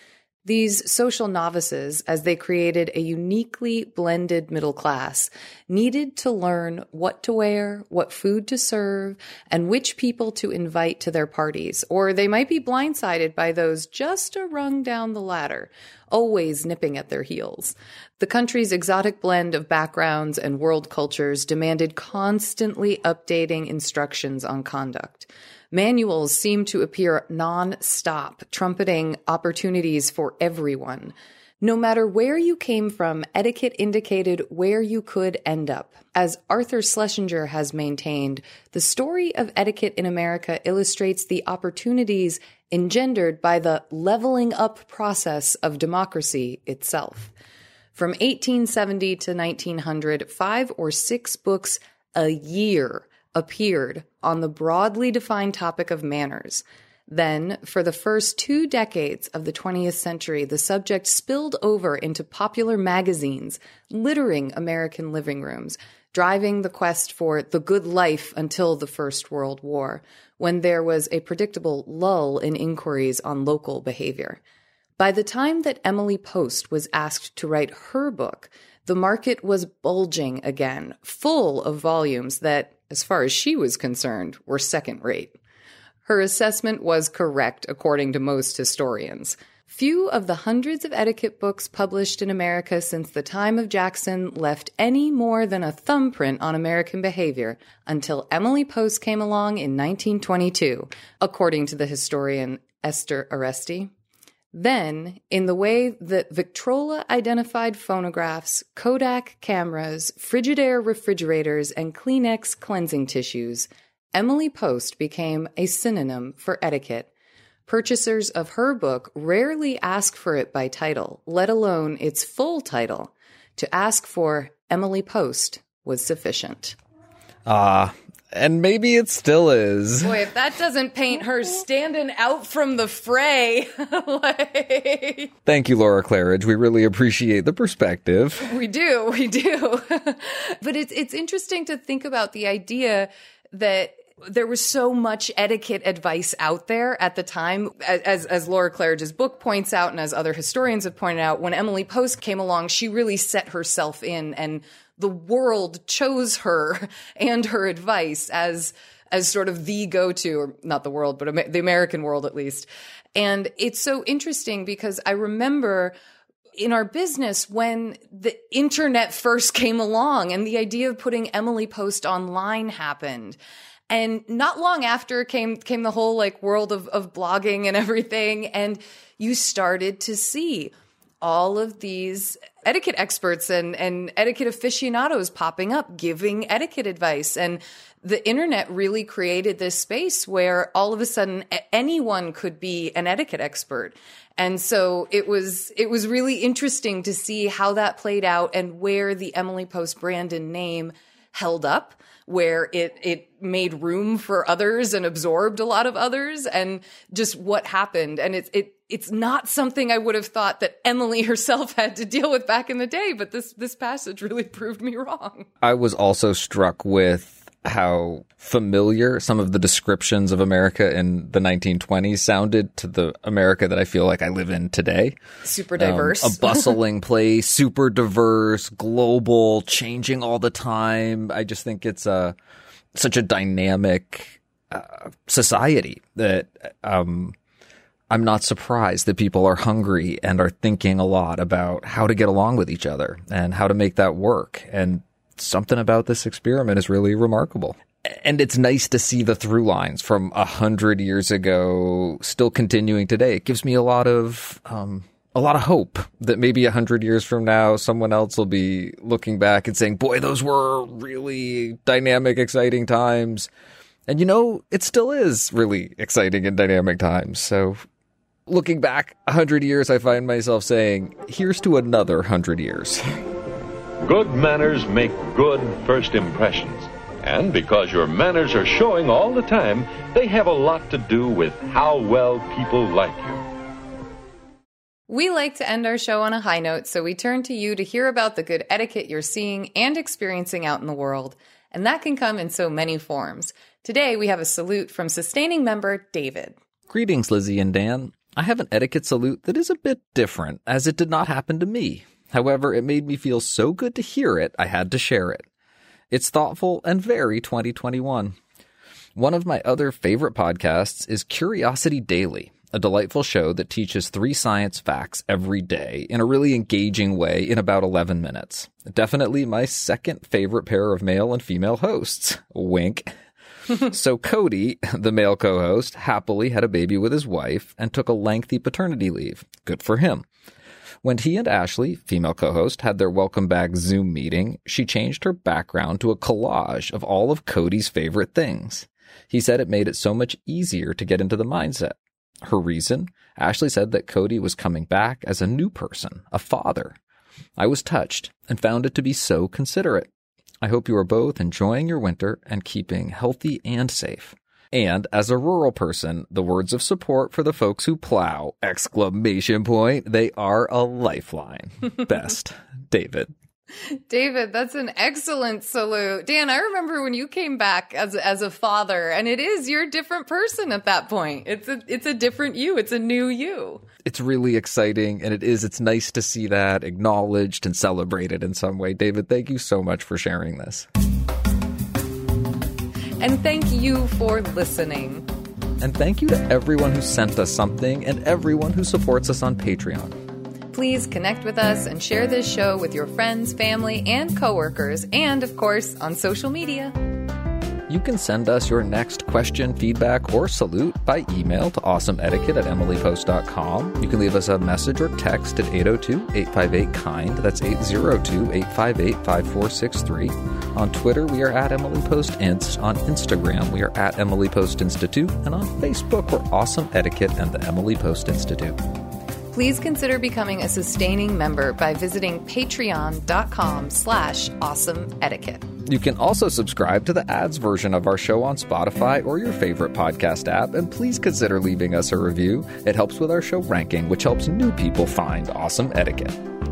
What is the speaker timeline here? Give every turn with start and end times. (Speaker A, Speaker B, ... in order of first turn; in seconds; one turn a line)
Speaker A: 0.5-47.3
Speaker A: 48.0-74.4
Speaker A: 75.0-85.3
Speaker A: 86.0-103.9
Speaker A: 104.5-117.1
Speaker A: 117.7-126.8
Speaker B: 127.5-130.2
Speaker A: 130.0-135.3
Speaker B: 135.5-138.5
Speaker A: 138.4-165.9
Speaker A: 166.6-173.4
Speaker A: 173.9-215.5
Speaker B: 215.6-225.2
Speaker A: 225.4-226.8
Speaker B: 225.8-232.3
Speaker B: 232.9-237.3
Speaker B: 238.1-263.5
Speaker B: 264.1-267.8
Speaker B: 268.5-273.0
Speaker C: 274.0-283.4
Speaker A: 285.1-296.6
Speaker B: 296.9-305.4
Speaker B: 306.1-308.4
Speaker B: 309.2-323.1
Speaker B: 323.7-330.2
Speaker B: 331.0-347.0
Speaker B: 347.6-350.1
Speaker B: 350.6-363.3
Speaker A: 363.8-373.8
Speaker B: 374.0-380.9
Speaker A: 383.2-385.2
Speaker B: 385.8-390.2
Speaker A: 390.7-396.9
Speaker B: 397.9-418.8
Speaker A: 419.5-425.7
Speaker B: 425.9-436.4